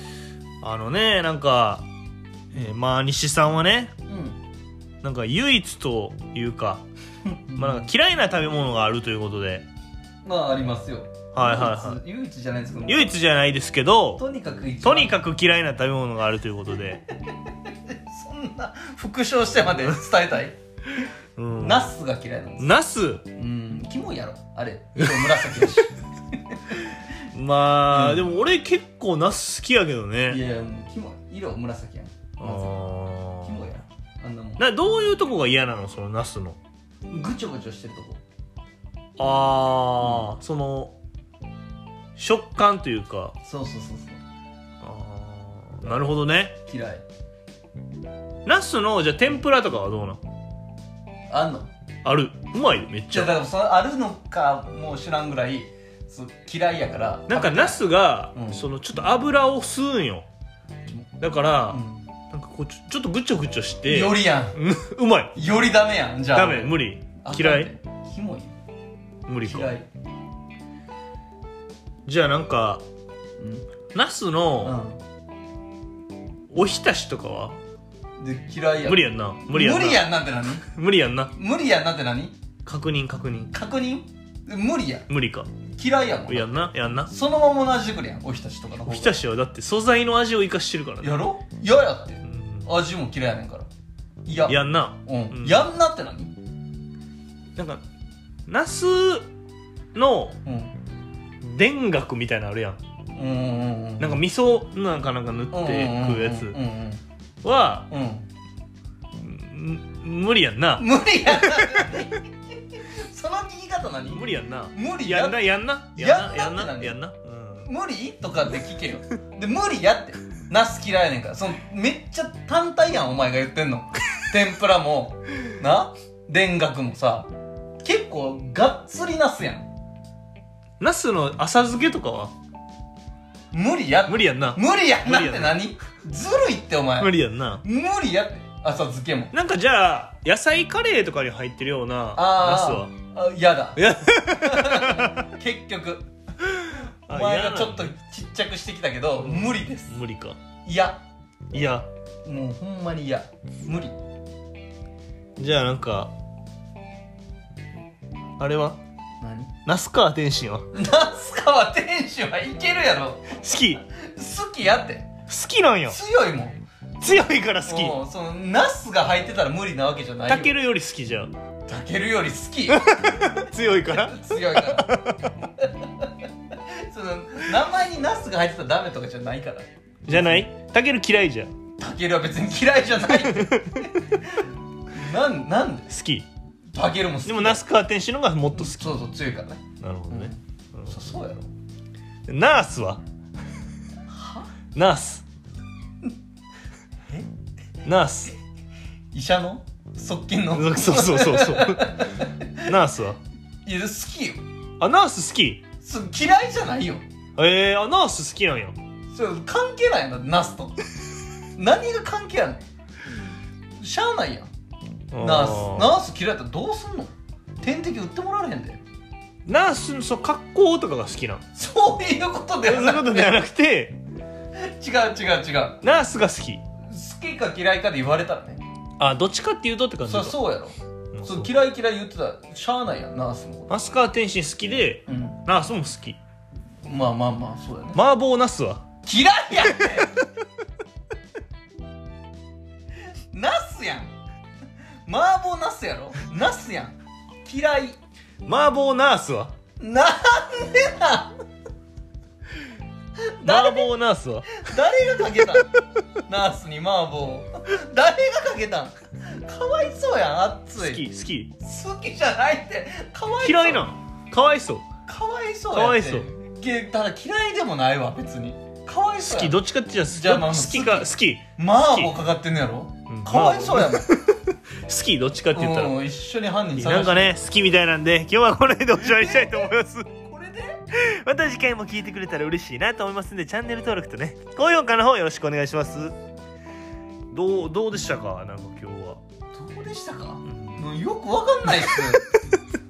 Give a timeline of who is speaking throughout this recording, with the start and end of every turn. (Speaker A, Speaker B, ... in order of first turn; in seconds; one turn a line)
Speaker A: 0.6-1.9
Speaker A: 2.5-3.9
Speaker B: 4.1-4.4
Speaker A: 5.0-6.8
Speaker B: 7.2-7.9
Speaker A: 7.5-9.7
Speaker B: 10.2-13.2
Speaker A: 11.3-12.0
Speaker A: 12.9-14.2
Speaker B: 14.2-15.1
Speaker A: 14.8-17.0
Speaker B: 17.7-20.6
Speaker A: 21.4-21.9
Speaker B: 21.6-22.8
Speaker A: 22.6-23.3
Speaker B: 23.3-26.9
Speaker A: 25.0-25.7
Speaker A: 27.3-30.4
Speaker B: 27.9-28.2
Speaker B: 30.3-34.6
Speaker A: 32.4-33.7
Speaker A: 34.6-36.6
Speaker B: 37.1-38.2
Speaker A: 39.2-41.0
Speaker B: 40.0-40.3
Speaker A: 42.1-43.3
Speaker B: 43.4-44.2
Speaker A: 44.8-46.6
Speaker B: 46.7-47.0
Speaker A: 48.4-50.2
Speaker B: 51.3-51.7
Speaker A: 52.0-53.4
Speaker B: 53.1-57.8
Speaker A: 57.3-60.3
Speaker B: 58.3-58.6
Speaker A: 61.2-65.4
Speaker B: 61.7-62.1
Speaker B: 63.9-64.6
Speaker B: 65.3-68.5
Speaker A: 66.3-67.7
Speaker A: 69.3-69.7
Speaker B: 69.4-69.9
Speaker A: 72.0-72.8
Speaker B: 73.4-73.7
Speaker A: 73.9-74.8
Speaker B: 74.6-75.0
Speaker A: 76.5-77.6
Speaker B: 78.2-80.6
Speaker A: 78.8-81.3
Speaker B: 81.3-82.4
Speaker A: 82.6-83.5
Speaker B: 83.5-85.0
Speaker A: 85.1-85.5
Speaker B: 85.8-89.2
Speaker A: 86.3-87.1
Speaker A: 88.8-91.2
Speaker B: 91.0-93.7
Speaker A: 92.2-92.7
Speaker B: 94.2-96.3
Speaker A: 94.5-95.7
Speaker A: 97.5-97.8
Speaker A: 98.5-99.3
Speaker A: 99.9-100.4
Speaker B: 100.4-100.7
Speaker A: 101.4-102.8
Speaker B: 103.1-104.2
Speaker A: 104.0-106.6
Speaker B: 105.5-107.0
Speaker A: 107.4-107.9
Speaker B: 107.9-108.2
Speaker A: 109.2-111.9
Speaker B: 110.8-115.4
Speaker A: 114.1-117.7
Speaker B: 115.9-117.0
Speaker B: 117.6-127.3
Speaker B: 127.8-129.7
Speaker A: 130.8-132.3
Speaker B: 133.5-137.1
Speaker A: 134.1-135.6
Speaker A: 137.0-137.6
Speaker B: 137.6-139.3
Speaker A: 139.3-142.9
Speaker B: 142.1-146.1
Speaker A: 143.8-145.2
Speaker A: 146.5-147.9
Speaker B: 147.1-150.0
Speaker A: 149.2-150.4
Speaker B: 150.6-151.0
Speaker A: 151.5-151.9
Speaker B: 152.2-153.9
Speaker A: 155.4-156.1
Speaker A: 158.4-158.8
Speaker B: 159.2-159.5
Speaker A: 159.6-160.7
Speaker B: 160.7-165.1
Speaker A: 163.3-163.8
Speaker A: 165.3-166.0
Speaker B: 165.9-170.5
Speaker A: 167.0-168.0
Speaker A: 170.3-171.3
Speaker B: 171.7-174.9
Speaker A: 172.7-175.3
Speaker B: 175.6-176.2
Speaker B: 176.8-180.4
Speaker A: 180.1-181.5
Speaker B: 181.8-185.9
Speaker A: 183.2-183.8
Speaker A: 185.9-186.3
Speaker B: 186.7-187.6
Speaker A: 187.2-189.0
Speaker B: 188.5-191.5
Speaker A: 189.8-190.9
Speaker A: 192.3-193.0
Speaker B: 194.1-194.5
Speaker A: 194.7-195.2
Speaker A: 197.8-198.3
Speaker B: 199.1-202.6
Speaker A: 200.5-203.2
Speaker B: 203.6-204.4
Speaker A: 204.8-205.6
Speaker B: 205.8-207.0
Speaker A: 207.4-208.8
Speaker B: 209.1-210.8
Speaker B: 211.5-212.6
Speaker B: 213.8-214.5
Speaker A: 215.1-215.9
Speaker B: 215.2-218.8
Speaker A: 219.4-221.4
Speaker B: 221.5-223.4
Speaker A: 222.6-224.0
Speaker B: 224.6-225.8
Speaker A: 225.8-226.6
Speaker B: 226.8-228.6
Speaker A: 229.0-230.4
Speaker B: 230.0-233.7
Speaker A: 231.1-231.5
Speaker A: 233.7-236.2
Speaker B: 235.1-235.4
Speaker B: 236.8-238.0
Speaker A: 237.9-238.8
Speaker B: 239.0-240.2
Speaker B: 243.3-244.1
Speaker B: 245.1-248.0
Speaker A: 248.4-249.5
Speaker B: 249.8-251.3
Speaker B: 253.2-253.9
Speaker A: 253.4-254.6
Speaker B: 254.5-255.7
Speaker B: 256.2-261.0
Speaker A: 260.8-261.5
Speaker B: 261.6-263.9
Speaker A: 263.4-264.8
Speaker B: 265.1-274.1
Speaker A: 265.7-266.3
Speaker A: 269.2-272.1
Speaker A: 273.1-275.9
Speaker B: 275.5-277.4
Speaker A: 276.8-280.1
Speaker B: 278.9-280.8
Speaker A: 280.9-286.1
Speaker A: 287.3-289.2
Speaker B: 289.5-292.2
Speaker A: 290.5-290.8